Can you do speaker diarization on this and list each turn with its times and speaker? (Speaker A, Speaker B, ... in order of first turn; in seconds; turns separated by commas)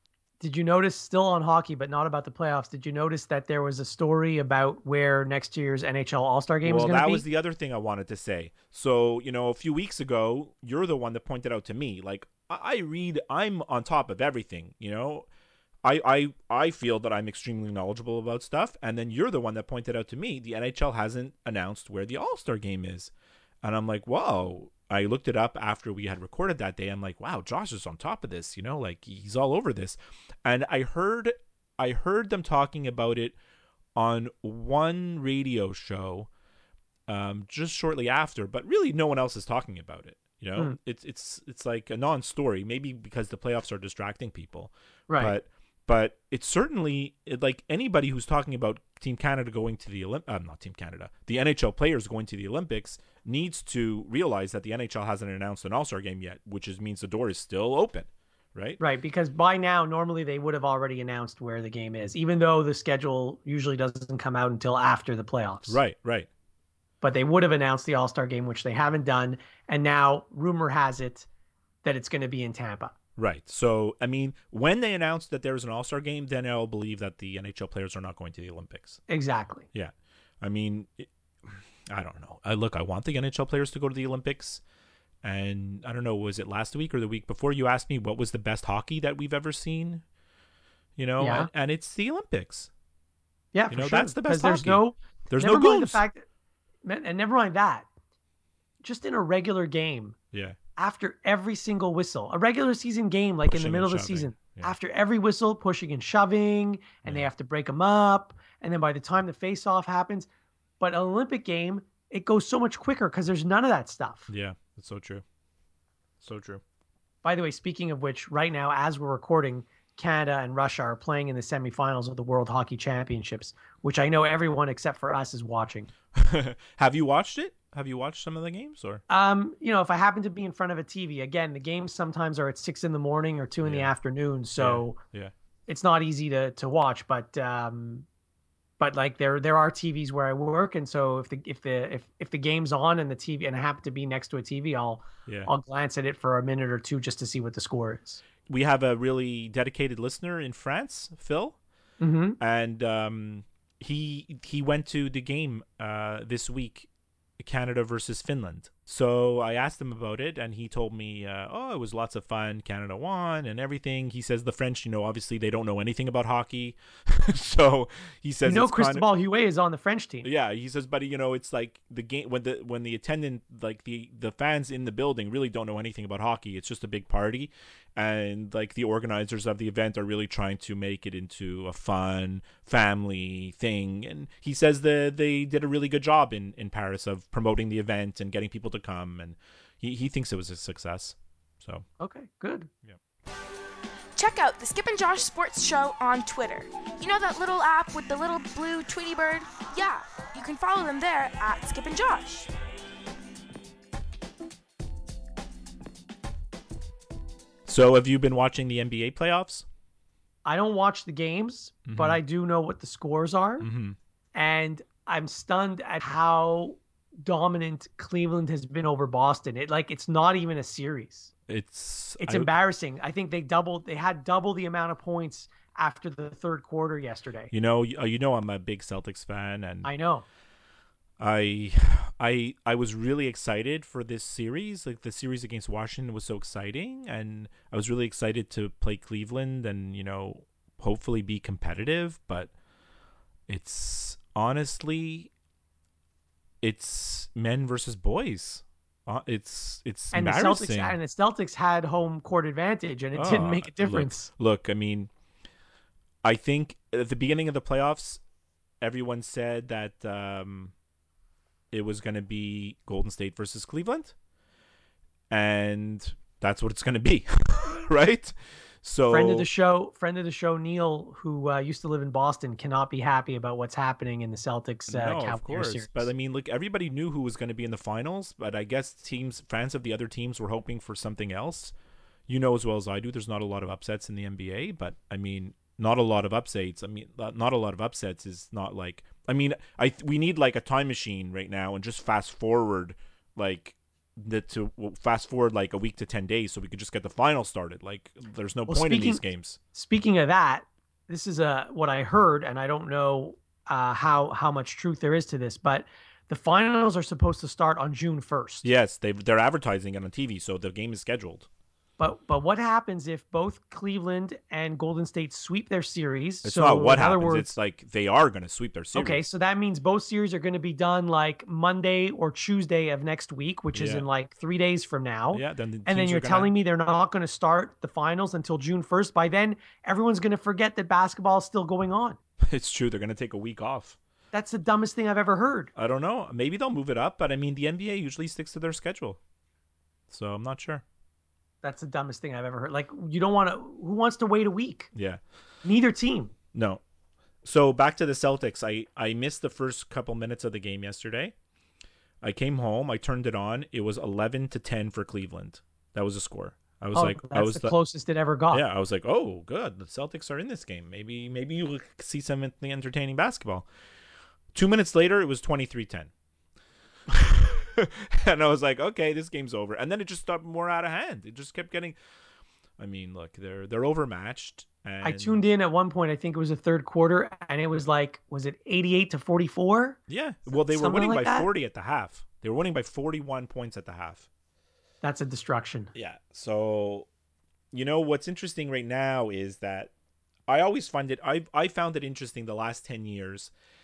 Speaker A: 0.4-7.2, Speaker B: 6.6-15.3, Speaker B: 15.8-23.1, Speaker B: 23.6-33.4, Speaker B: 34.0-36.3, Speaker B: 37.1-58.8, Speaker A: 45.1-45.3, Speaker A: 58.8-65.8, Speaker B: 65.7-66.3, Speaker A: 67.0-71.3, Speaker A: 71.8-72.9, Speaker B: 73.2-79.0, Speaker A: 79.1-79.7, Speaker B: 79.7-84.6, Speaker B: 85.2-90.0, Speaker B: 91.0-92.7, Speaker A: 91.2-91.5, Speaker A: 93.5-96.2, Speaker B: 93.7-96.0, Speaker A: 96.8-97.9, Speaker A: 98.8-100.2, Speaker B: 100.3-100.6, Speaker A: 100.8-110.3, Speaker B: 103.5-104.8, Speaker A: 110.8-114.3, Speaker B: 114.3-115.2, Speaker B: 116.2-116.6, Speaker A: 117.2-125.9, Speaker B: 126.1-129.0, Speaker A: 129.1-135.0, Speaker B: 133.6-133.9, Speaker B: 134.6-135.3, Speaker A: 135.7-138.1, Speaker A: 138.8-148.2, Speaker B: 145.3-145.5, Speaker B: 148.5-151.6, Speaker A: 152.0-152.4, Speaker B: 152.4-156.9, Speaker B: 157.4-169.1, Speaker A: 168.4-170.3, Speaker B: 170.2-191.8, Speaker A: 192.0-192.7, Speaker C: 194.2-202.5, Speaker B: 207.7-209.7, Speaker A: 210.4-213.7, Speaker B: 211.9-212.2, Speaker B: 213.6-214.0, Speaker A: 214.3-221.3, Speaker B: 221.5-222.5, Speaker A: 222.2-227.5, Speaker B: 227.5-229.9, Speaker A: 229.8-230.3, Speaker B: 231.2-242.5, Speaker B: 243.5-245.3, Speaker B: 246.6-251.0, Speaker A: 250.1-254.3, Speaker B: 253.1-255.1, Speaker B: 256.2-258.2, Speaker B: 258.8-260.7, Speaker B: 261.7-264.1, Speaker B: 265.3-269.5, Speaker A: 269.1-276.1, Speaker B: 274.9-281.7, Speaker B: 282.3-299.6, Speaker A: 298.7-308.7, Speaker B: 308.6-311.5, Speaker A: 312.0-317.5, Speaker B: 316.4-319.2, Speaker A: 318.9-332.2, Speaker B: 323.7-324.1, Speaker B: 325.3-326.5, Speaker B: 332.4-334.0, Speaker A: 334.3-335.7, Speaker B: 335.8-339.2, Speaker B: 340.1-340.8, Speaker A: 341.6-344.9, Speaker B: 344.9-345.2, Speaker A: 345.6-346.3, Speaker B: 346.5-346.8, Speaker B: 347.4-351.3, Speaker B: 352.2-357.7, Speaker A: 356.9-358.6, Speaker B: 358.5-363.7, Speaker B: 364.5-366.1, Speaker B: 367.1-372.0, Speaker B: 372.8-375.4, Speaker A: 375.0-380.0, Speaker B: 380.1-384.3, Speaker A: 380.7-381.5, Speaker A: 385.0-385.9, Speaker B: 385.9-387.1, Speaker B: 387.7-389.9, Speaker B: 390.5-393.5